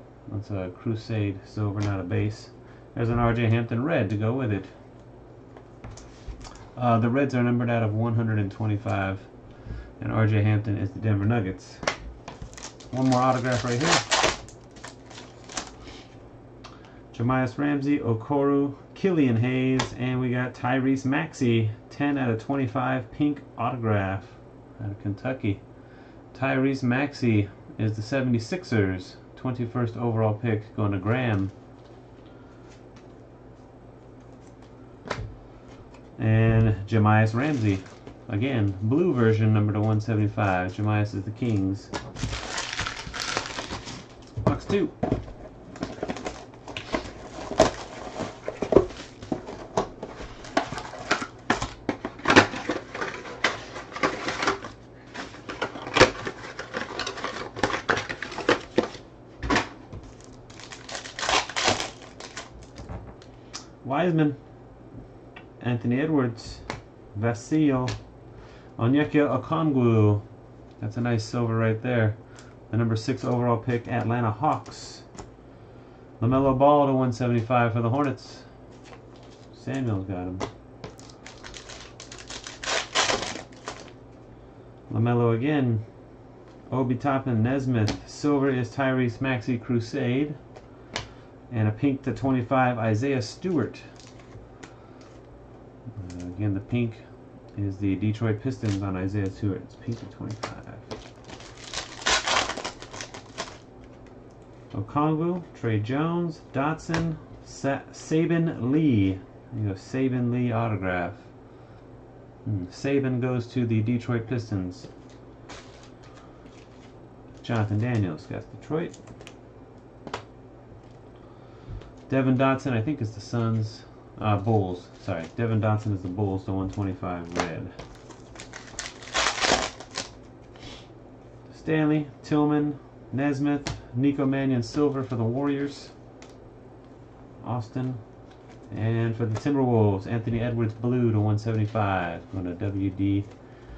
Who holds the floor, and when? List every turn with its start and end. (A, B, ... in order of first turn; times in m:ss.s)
0:00.3-0:04.7 A
0:06.8-0:09.3 A
0:10.0-0:11.8 A
0:12.9-0:14.0 A
0:17.1-0:25.6 A
0:26.3-0:31.5 A
0:36.2-0:41.9 A
0:44.4-0:44.9 A
1:03.8-1:04.4 A
1:05.6-1:08.0 A
1:08.8-1:10.2 A
1:10.8-1:12.2 A
1:12.7-1:15.0 A
1:16.2-1:18.5 A
1:19.5-1:20.4 A
1:24.9-1:25.8 A
1:26.7-1:30.4 A
1:31.5-1:33.8 A
1:36.0-1:37.0 A
1:37.6-1:40.9 A
1:44.7-1:51.3 A
1:52.4-1:54.9 A
1:57.4-1:59.0 A
2:02.1-2:07.7 A
2:11.5-2:15.9 A
2:17.4-2:18.0 A
2:18.7-2:23.3 A